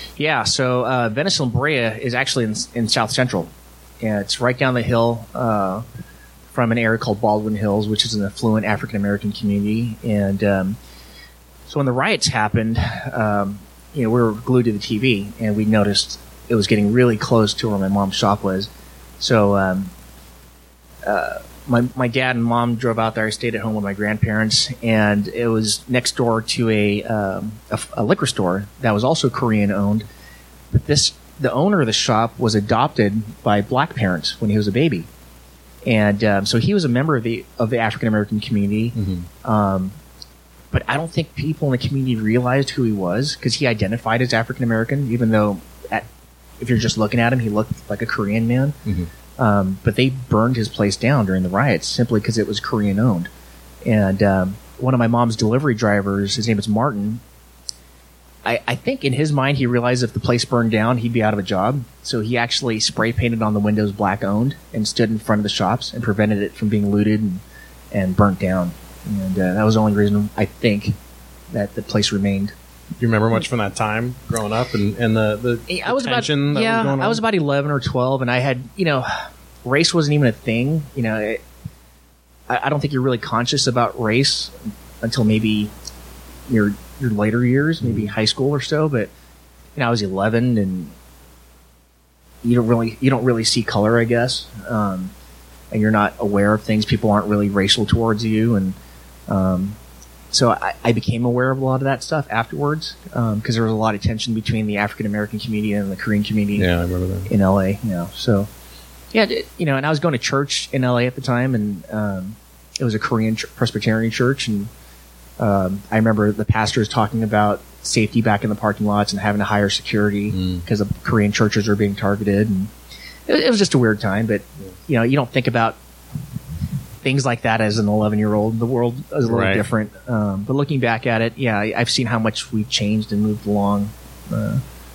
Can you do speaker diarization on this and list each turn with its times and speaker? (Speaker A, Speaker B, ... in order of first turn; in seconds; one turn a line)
Speaker A: 0.2-5.8
Speaker A: 6.5-10.8
Speaker A: 11.7-19.9
Speaker A: 21.0-30.1
Speaker A: 30.7-35.1
Speaker A: 35.9-40.0
Speaker B: 39.0-39.3
Speaker A: 40.7-46.1
Speaker A: 46.6-48.8
Speaker A: 49.4-53.3
Speaker A: 53.8-57.2
Speaker A: 58.5-71.0
Speaker A: 71.5-72.5
Speaker B: 73.0-77.2
Speaker A: 75.7-81.4
Speaker A: 82.5-85.7
Speaker A: 86.5-89.1
Speaker B: 87.8-88.1
Speaker A: 89.8-90.9
Speaker A: 92.4-95.1
Speaker A: 95.7-98.8
Speaker A: 99.3-99.8
Speaker A: 100.3-106.7
Speaker B: 106.6-107.3
Speaker A: 107.3-108.5
Speaker A: 109.1-114.7
Speaker A: 115.4-122.7
Speaker B: 120.3-120.7
Speaker A: 123.3-125.8
Speaker A: 127.0-134.6
Speaker B: 129.3-129.7